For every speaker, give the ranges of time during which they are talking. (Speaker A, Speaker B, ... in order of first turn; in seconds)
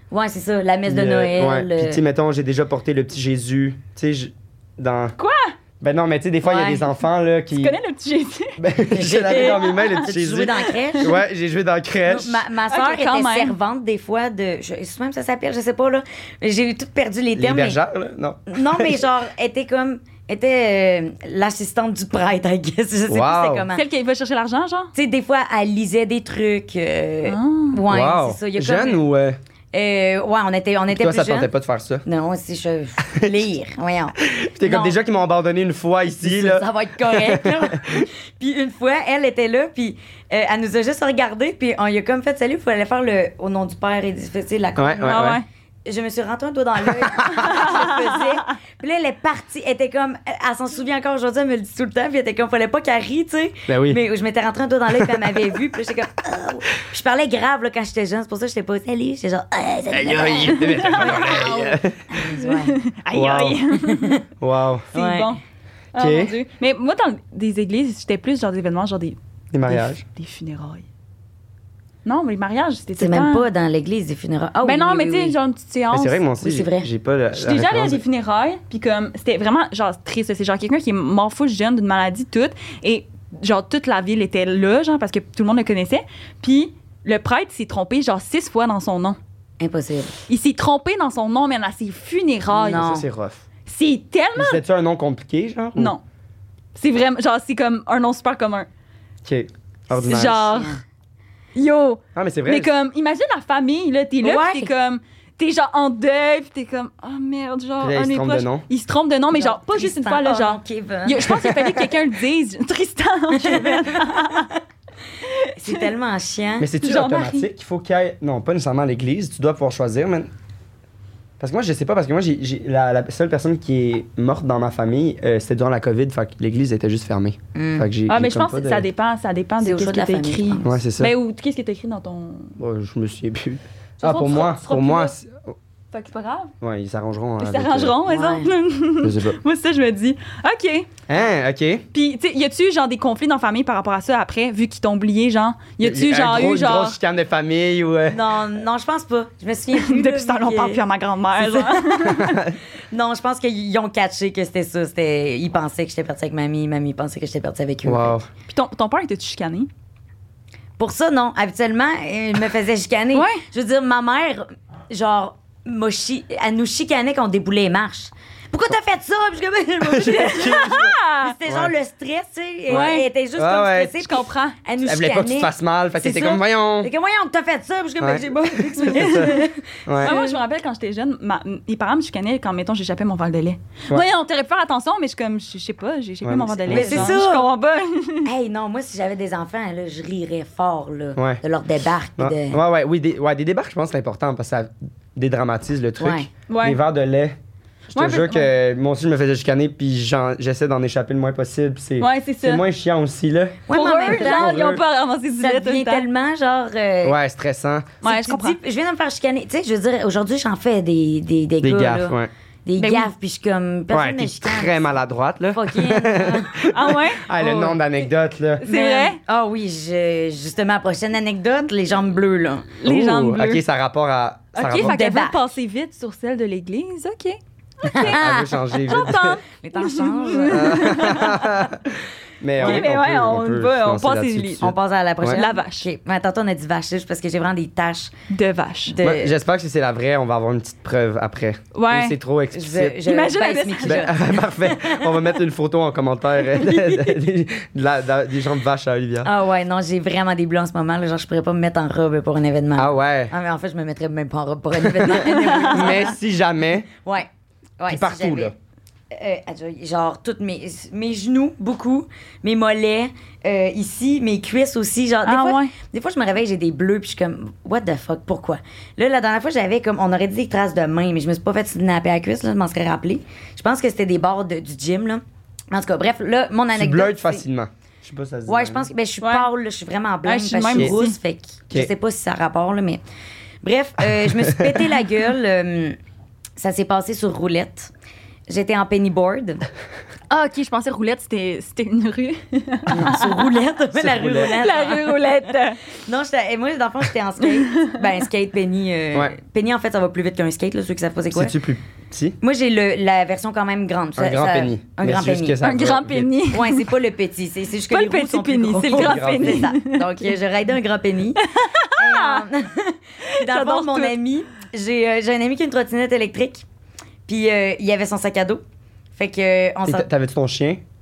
Speaker A: 0.1-2.0, 6.4-6.9, 8.9-11.1, 12.0-17.8, 18.5-23.8, 24.9-29.0, 29.7-31.5, 32.0-35.0, 36.2-62.8, 63.8-64.2, 64.9-65.3, 73.0-75.3, 76.4-76.9, 89.6-90.1, 92.5-93.1, 100.5-100.8, 104.2-104.7, 109.3-111.8, 113.3-114.5, 115.5-116.7, 127.5-127.9, 129.6-130.7, 138.1-138.5, 148.1-150.8, 151.4-152.3, 152.9-158.2, 160.8-180.4, 186.7-187.5, 188.2-192.6, 196.0-196.3, 203.7-204.8, 205.4-207.2, 208.0-214.9, 215.5-216.7, 218.6-222.8, 224.7-225.4, 227.9-231.2, 234.6-238.1, 238.9-239.3, 242.5-245.2, 249.2-256.1, 257.0-257.3, 257.8-258.5, 259.1-277.4, 278.5-283.0, 283.6-286.0, 286.6-287.9, 288.5-289.6, 292.9-301.5, 302.4-305.6, 306.5-316.6, 317.3-318.6, 319.2-320.1
Speaker B: 0.9-5.1, 5.8-7.8, 8.6-12.4, 17.4-19.0, 23.1-23.6, 27.9-29.4, 30.9-32.0, 34.2-38.1, 44.8-45.4, 47.0-47.6, 53.7-54.0, 55.0-55.4, 59.9-62.1, 63.1-63.6, 64.4-64.9, 65.9-66.3, 69.5-70.0, 75.9-78.0, 92.6-93.4, 94.3-95.9, 99.2-100.6, 102.1-102.7, 107.8-108.6, 111.3-111.7, 116.6-120.3, 121.4-128.8, 130.6-131.1, 132.6-135.5, 136.6-138.0, 139.0-139.4, 141.1-141.8, 145.8-148.4, 152.1-152.6, 157.8-158.3, 169.8-171.7, 172.7-173.9, 174.8-176.9, 178.0-180.2, 186.2-187.2, 192.2-197.3, 197.9-204.8, 207.0-208.0, 211.6-212.3, 213.9-218.7, 222.8-225.0, 227.9-229.4, 230.5-235.4, 239.0-243.0, 243.8-249.3, 252.8-253.3, 255.0-256.9, 257.9-258.5, 276.7-278.9, 284.2-284.8, 293.9-294.6, 301.3-302.4, 304.2-306.3, 308.9-309.7, 319.9-320.8
Speaker C: 5.2-5.5, 7.5-8.6, 9.2-11.1, 12.7-13.6, 23.7-24.9, 27.2-27.8, 45.1-45.4, 47.4-48.3, 60.5-61.8, 62.3-64.2, 64.9-65.4, 65.9-70.8, 72.0-73.5, 74.6-76.2, 77.3-89.2, 90.3-92.9, 93.7-94.6, 95.8-96.0, 96.7-98.7, 99.9-100.8, 101.5-114.5, 115.3-115.9, 116.8-117.5, 128.1-132.6, 134.0-135.1, 135.9-136.5, 137.4-140.9, 141.9-147.0, 149.7-152.4, 158.5-159.7, 163.1-163.4, 170.1-171.3, 172.7-173.1, 174.0-174.6, 178.8-188.3, 196.5-196.8, 197.9-198.5, 202.0-202.6, 203.7-206.1, 208.0-208.6, 212.8-213.1, 216.7-217.8, 218.6-219.2, 222.8-223.6, 224.5-228.2, 228.8-231.6, 232.6-234.7, 235.2-235.9, 238.3-238.9, 241.7-242.2, 243.0-244.1, 255.3-255.9, 265.2-265.7, 279.2-279.5, 280.2-281.1, 290.3-293.6, 294.4-295.9, 297.6-297.9, 305.6-306.9, 307.9-310.3, 311.4-312.4, 313.3-314.1